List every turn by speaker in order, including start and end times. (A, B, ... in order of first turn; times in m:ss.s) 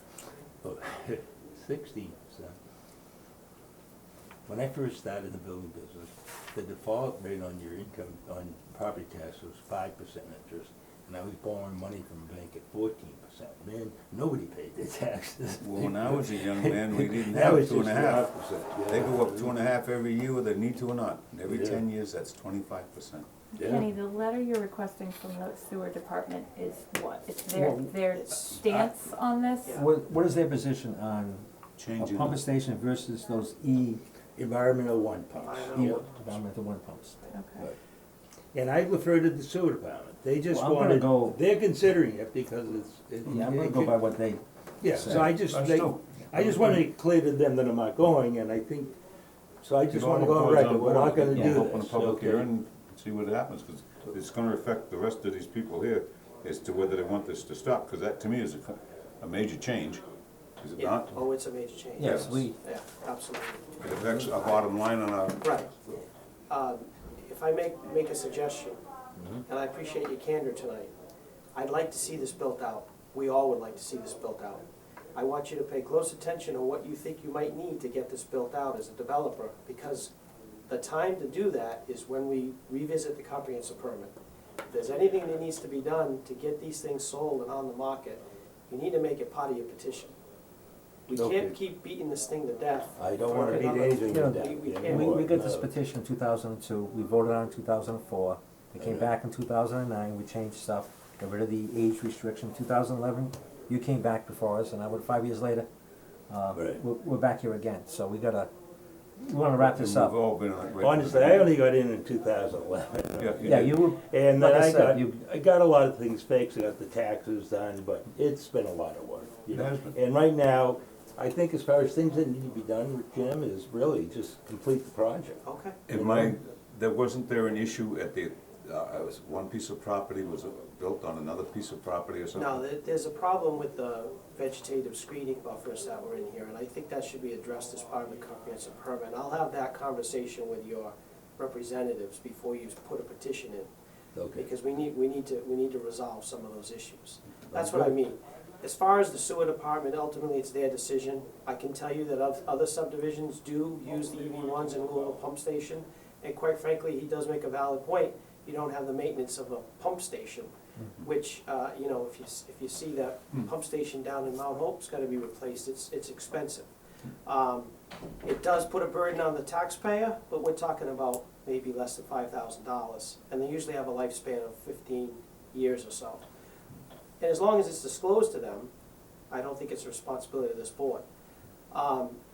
0:00.6-0:02.5 A
0:04.4-0:19.6 A
0:15.6-0:18.3 B
0:18.9-0:23.3 B
0:21.4-0:21.8 A
0:23.5-0:29.8 C
0:23.6-0:23.9 A
0:27.5-0:27.9 D
0:28.1-0:29.0 E
0:29.7-0:31.4 D
0:31.8-0:32.4 B
0:32.0-0:34.0 D
0:34.4-0:36.1 A
0:35.4-0:36.0 E
0:35.7-0:37.2 D
0:37.3-0:37.7 C
0:38.5-0:44.1 A
0:40.5-0:41.4 D
0:43.3-0:45.3 D
0:44.8-0:49.0 A
0:45.0-0:46.1 B
0:49.6-0:52.5 A
0:49.9-1:00.0 B
0:51.3-0:51.6 D
1:00.6-1:01.2 B
1:00.8-1:04.6 E
1:02.0-1:02.6 D
1:02.0-1:02.4 B
1:03.8-1:05.4 B
1:05.4-1:05.7 E
1:06.5-1:08.8 E
1:09.2-1:09.4 A
1:09.5-1:10.9 E
1:11.5-1:20.1 E
1:20.7-1:24.1 E
1:24.7-1:30.1 E
1:31.1-1:35.2 E
1:31.1-1:31.6 A
1:33.0-1:35.7 A
1:34.1-1:45.7 D
1:38.8-1:39.1 A
1:46.3-1:48.5 D
1:46.5-1:46.8 A
1:49.2-1:50.1 D
1:49.6-1:51.5 B
1:50.8-2:06.3 A
1:53.2-1:53.7 B
1:53.4-1:55.2 D
1:59.5-1:59.9 B
2:05.4-2:05.8 E
2:05.9-2:12.6 B
2:12.3-2:23.7 E
2:24.1-2:24.5 A
2:24.3-2:40.5 E
2:27.5-2:28.0 A
2:41.0-2:46.7 E
2:47.2-2:47.7 E
2:48.2-2:56.2 E
2:57.2-2:58.7 E
2:59.3-3:01.0 E
3:01.7-3:02.2 E